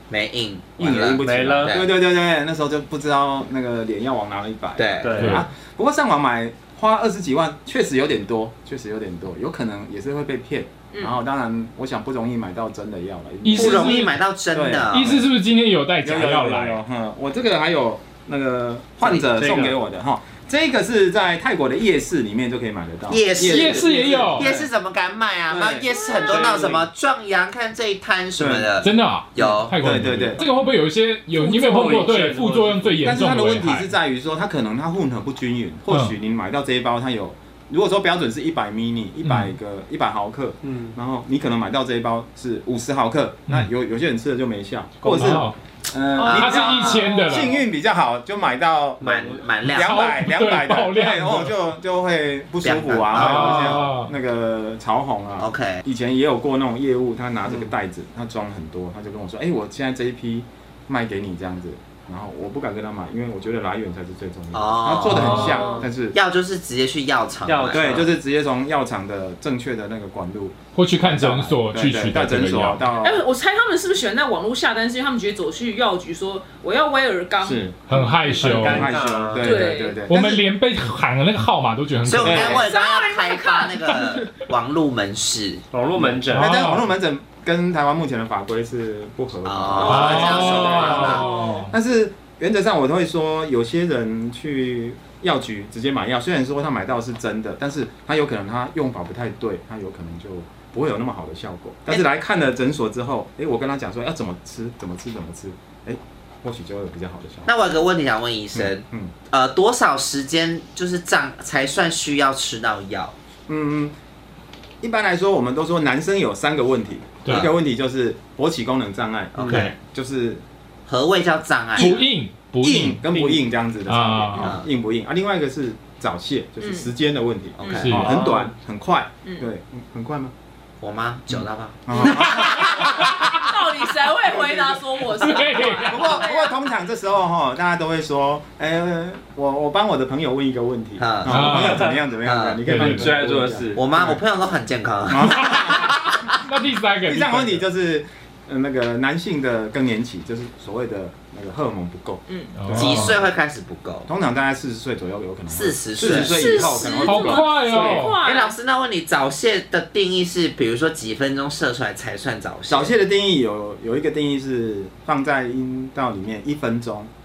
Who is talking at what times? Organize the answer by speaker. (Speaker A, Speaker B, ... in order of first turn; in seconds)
Speaker A: 0.1-1.9, 4.8-5.3, 13.5-15.1, 23.1-29.8, 46.2-47.0, 49.0-50.0, 52.6-53.9, 55.4-55.8, 64.5-68.0, 82.0-85.6, 89.4-91.3, 107.5-113.1, 119.3-119.7, 120.9-121.9, 124.4-124.7, 127.6-128.0, 130.8-133.5, 141.0-141.5, 142.2-142.6, 143.7-146.3, 152.8-154.1, 155.5-157.0, 158.2-162.9
Speaker B: 0.8-15.3, 16.0-24.7, 25.5-25.9, 28.4-28.8, 29.4-30.4, 33.0-49.1, 49.7-66.2, 67.7-73.2, 77.4-77.8, 78.4-80.5, 82.2-82.7, 85.9-107.5, 108.5-109.1, 113.5-113.9, 114.8-120.4, 121.8-122.0, 122.6-130.3, 131.3-133.1, 134.2-134.8, 135.8-144.2, 145.1-146.0, 147.1-153.3, 154.1-158.0, 162.7-167.1
Speaker C: 1.2-1.8, 5.0-5.4, 19.1-19.8, 25.9-26.9, 31.3-33.1, 40.6-40.9, 45.0-45.3, 49.0-49.5, 67.4-68.1, 78.2-79.5, 85.7-86.6, 119.4-119.7, 123.1-123.5, 128.0-128.5, 141.5-142.0, 142.6-143.9
Speaker D: 5.2-5.4, 13.4-14.1, 14.9-16.8, 23.4-24.5, 28.8-33.9, 39.2-39.5, 45.1-45.5, 46.3-47.6, 49.7-51.5, 53.1-54.1, 65.1-65.5, 70.7-72.9, 77.9-78.9, 80.1-82.7, 86.3-86.8, 89.8-91.7, 121.8-123.0, 123.9-124.6, 127.8-128.1, 135.2-136.2, 141.3-141.9, 142.7-143.1, 145.8-147.6, 152.6-153.2, 157.0-158.2
Speaker E: 46.2-47.6, 65.1-65.8, 73.0-78.4, 79.4-80.0, 82.5-84.2, 126.6-126.9, 131.9-136.6, 152.3-152.5, 156.0-158.6